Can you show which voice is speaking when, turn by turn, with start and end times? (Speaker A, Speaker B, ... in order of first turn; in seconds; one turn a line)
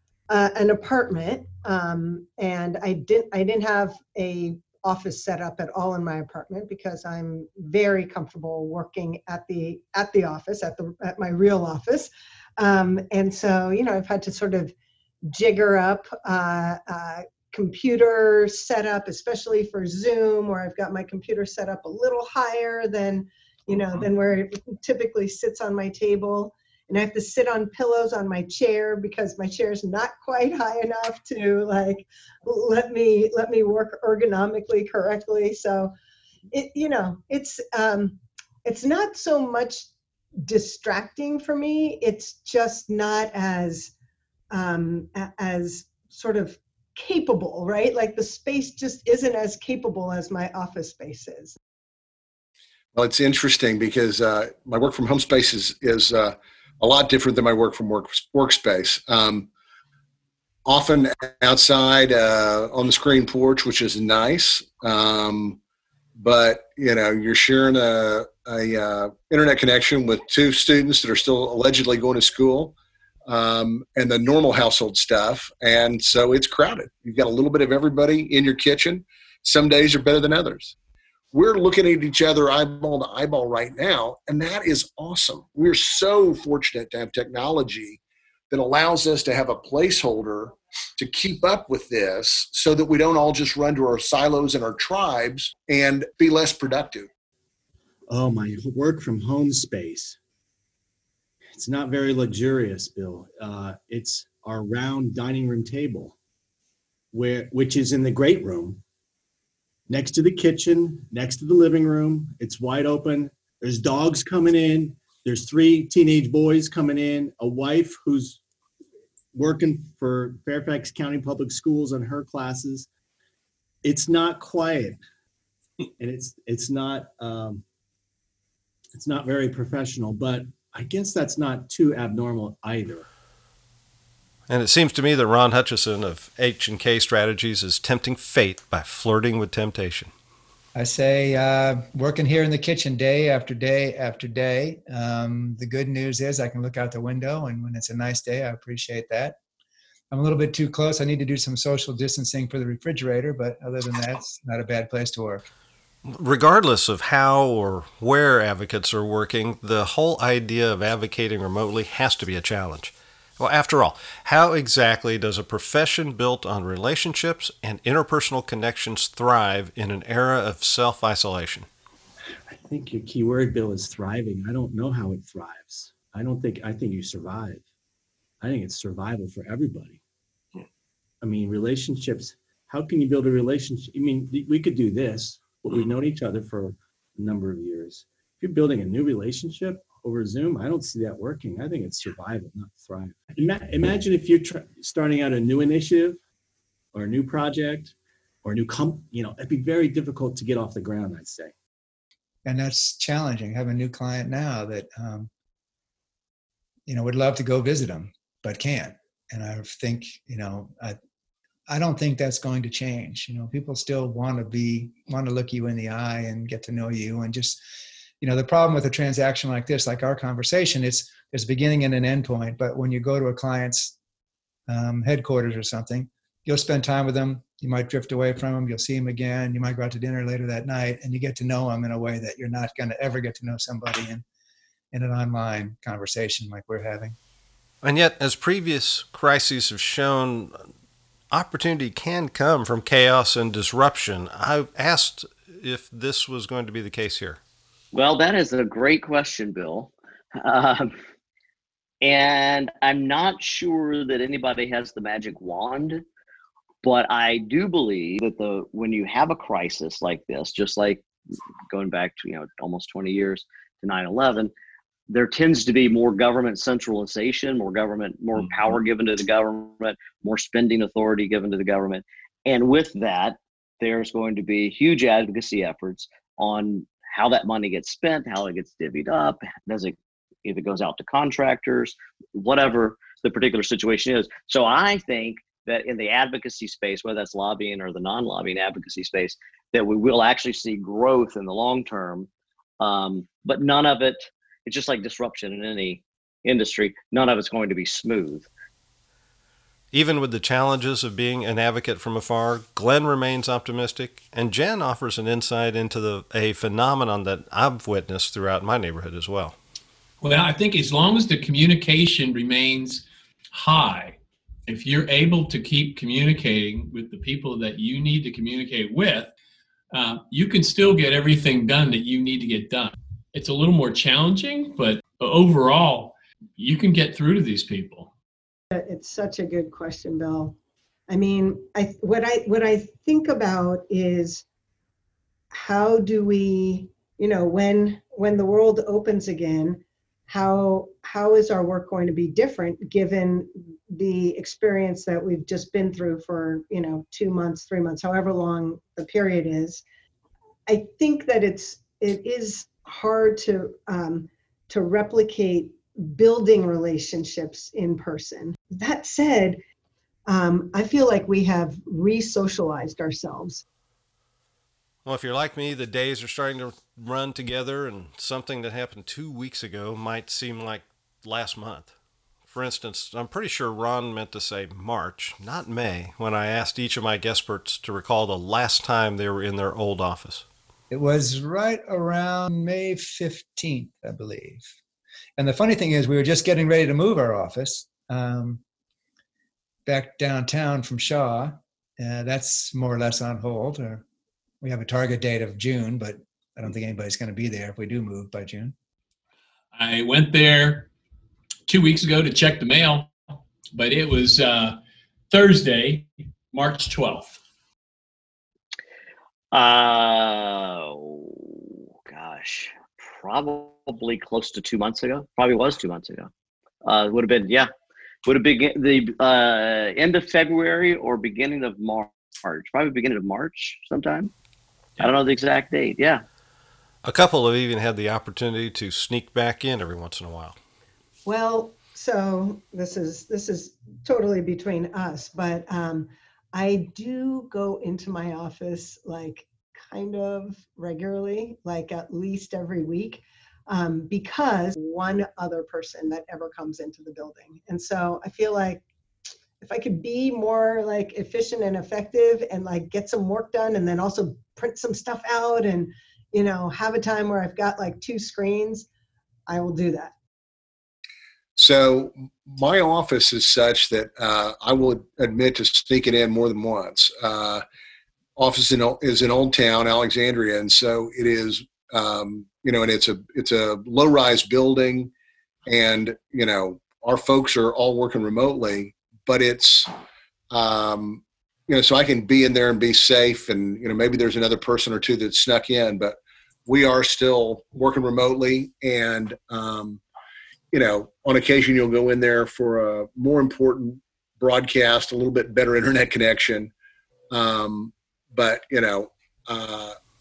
Speaker A: 0.3-14.7
Speaker A: 15.3-35.9
Speaker A: 36.5-43.9
Speaker A: 44.5-51.5
Speaker B: 52.9-59.5
Speaker B: 60.6-65.6
Speaker B: 66.2-80.8
Speaker B: 81.3-88.0
Speaker B: 88.5-97.1
Speaker C: 98.1-100.2
Speaker C: 101.5-106.2
Speaker C: 107.1-108.8
Speaker C: 109.9-118.4
Speaker C: 119.3-122.9
Speaker C: 123.8-125.0
Speaker C: 126.0-127.6
Speaker C: 128.9-133.1
Speaker D: 134.5-140.1
Speaker E: 140.8-149.4
Speaker E: 150.1-155.5
Speaker D: 156.0-171.7
Speaker C: 172.5-177.6
Speaker C: 178.4-180.0
Speaker C: 181.2-196.2
Speaker C: 196.9-201.5
Speaker E: 202.4-205.3
Speaker E: 206.9-211.0
Speaker E: 211.7-217.6
Speaker E: 218.2-223.9
Speaker E: 224.7-234.2
Speaker E: 234.9-237.2
Speaker D: 237.8-240.7
Speaker D: 241.3-247.4
Speaker F: 247.9-250.9
Speaker F: 252.0-256.0
Speaker F: 256.8-261.1
Speaker F: 261.7-264.5
Speaker F: 265.1-292.3
Speaker F: 292.8-298.5
Speaker D: 299.9-309.6
Speaker G: 310.2-319.3
Speaker G: 319.9-328.1
Speaker A: 328.7-330.6
Speaker A: 331.1-334.4
Speaker A: 335.5-349.8
Speaker A: 350.7-359.6
Speaker A: 360.3-363.6
Speaker D: 365.0-371.9
Speaker D: 372.5-380.4
Speaker E: 380.9-384.7
Speaker E: 385.4-388.6
Speaker E: 389.9-394.0
Speaker E: 394.6-398.7
Speaker G: 399.8-400.9
Speaker G: 401.7-403.1
Speaker G: 403.7-404.8
Speaker G: 405.3-407.4
Speaker F: 409.5-416.3
Speaker F: 416.8-417.7
Speaker F: 418.2-424.3
Speaker F: 425.0-426.2
Speaker D: 427.0-430.6
Speaker A: 431.2-448.8
Speaker A: 449.6-458.9
Speaker A: 459.5-460.1
Speaker B: 461.6-467.6
Speaker B: 468.4-475.1
Speaker B: 475.6-479.9
Speaker B: 480.5-490.0
Speaker B: 490.7-496.7
Speaker B: 497.3-500.0